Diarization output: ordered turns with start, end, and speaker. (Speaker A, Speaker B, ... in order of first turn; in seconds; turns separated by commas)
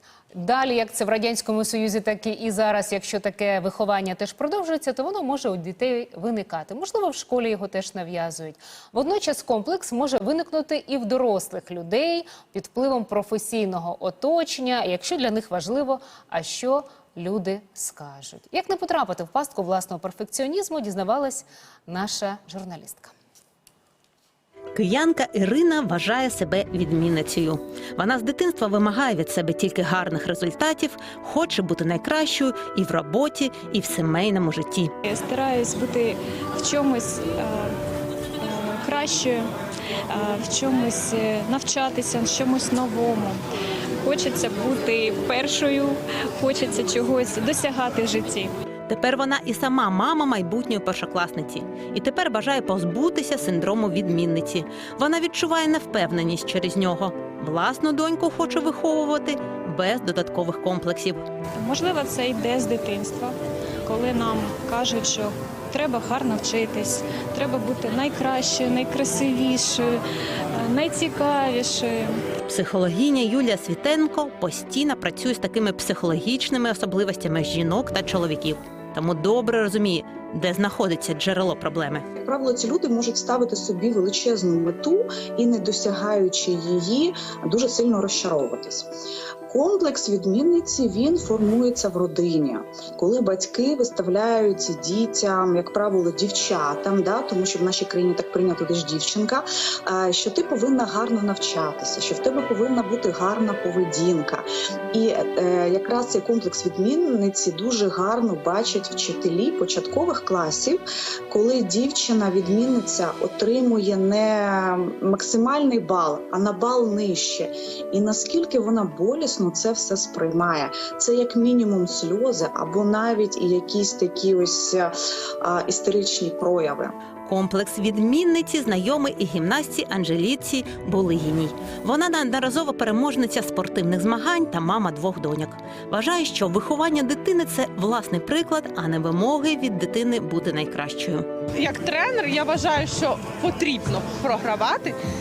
Speaker A: 0.3-23.1, Speaker B: 24.8-34.9, Speaker C: 35.0-37.8, Speaker C: 38.4-39.5, Speaker C: 40.1-43.4, Speaker C: 44.0-48.5, Speaker B: 48.9-61.2, Speaker C: 61.6-63.3, Speaker C: 63.8-70.0, Speaker C: 70.6-72.1, Speaker B: 72.5-82.0, Speaker D: 82.2-88.9, Speaker D: 89.5-127.0, Speaker B: 127.3-141.3, Speaker E: 141.6-144.9